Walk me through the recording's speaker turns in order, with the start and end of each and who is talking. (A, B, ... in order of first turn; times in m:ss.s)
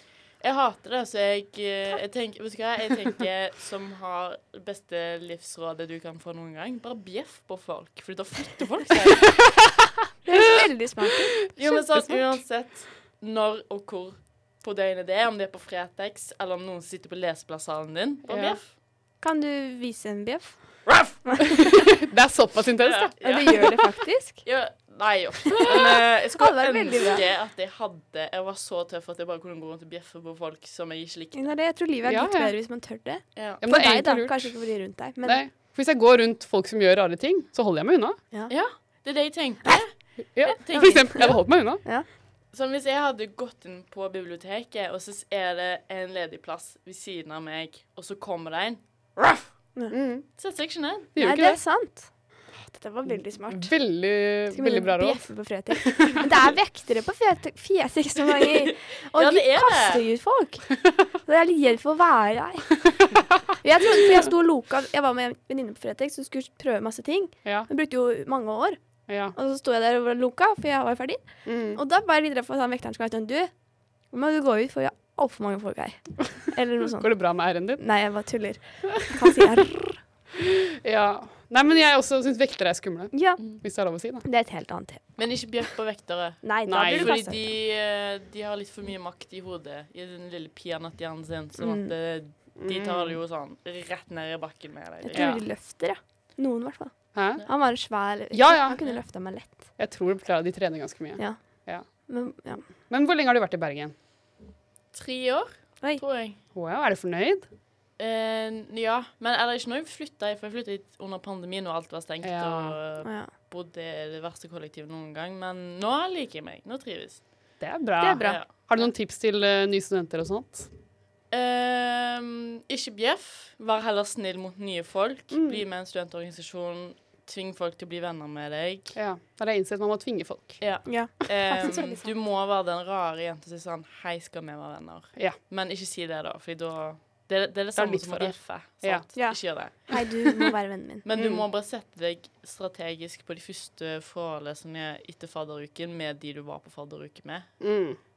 0:00.4-0:09.8 A
0:10.2-0:11.5 B
0:11.5-0:18.7 A
0:18.3-0:18.6 C
0:19.2-0:21.4 B
0:21.6-0:23.7 C
0:22.8-0:31.6 A
0:23.2-0:24.5 B
0:25.6-0:27.2 B
0:31.4-0:35.4 B
0:32.1-0:32.6 C
0:33.4-0:33.6 A
0:33.6-0:38.2 C
0:38.5-0:41.5 A
0:40.3-0:41.8 C
0:40.7-0:42.1 B
0:42.5-0:49.8 A
0:49.9-0:50.3 C
0:50.4-0:51.1 A
0:51.1-0:51.6 C
0:51.2-1:20.0 B
0:53.1-0:56.3 C
0:58.7-1:00.0 A
1:09.1-1:09.4 C
1:11.4-1:11.8 C
1:17.0-1:18.0 C
1:20.8-1:24.2 C
1:23.1-1:25.1 B
1:25.2-1:35.4 A
1:26.4-1:27.5 B
1:26.7-1:27.2 C
1:31.6-1:31.9 B
1:32.6-1:33.2 C
1:35.0-1:39.7 B
1:35.1-1:35.4 C
1:37.1-1:37.7 C
1:38.3-1:38.8 C
1:39.8-1:41.9 C
1:41.2-1:42.7 B
1:42.9-1:44.0 C
1:44.9-1:46.4 A
1:46.5-1:47.5 C
1:48.0-1:57.6 A
1:52.2-1:52.8 C
1:53.0-1:53.3 B
1:57.6-2:00.7 C
1:58.0-1:58.4 B
1:58.2-1:58.9 A
2:01.3-2:09.0 A
2:05.3-2:05.6 C
2:09.0-2:11.1 C
2:10.6-2:20.2 A
2:10.8-2:12.1 B
2:17.8-2:19.1 C
2:19.2-2:21.0 B
2:21.0-2:27.5 A
2:21.2-2:21.4 C
2:27.6-2:28.0 C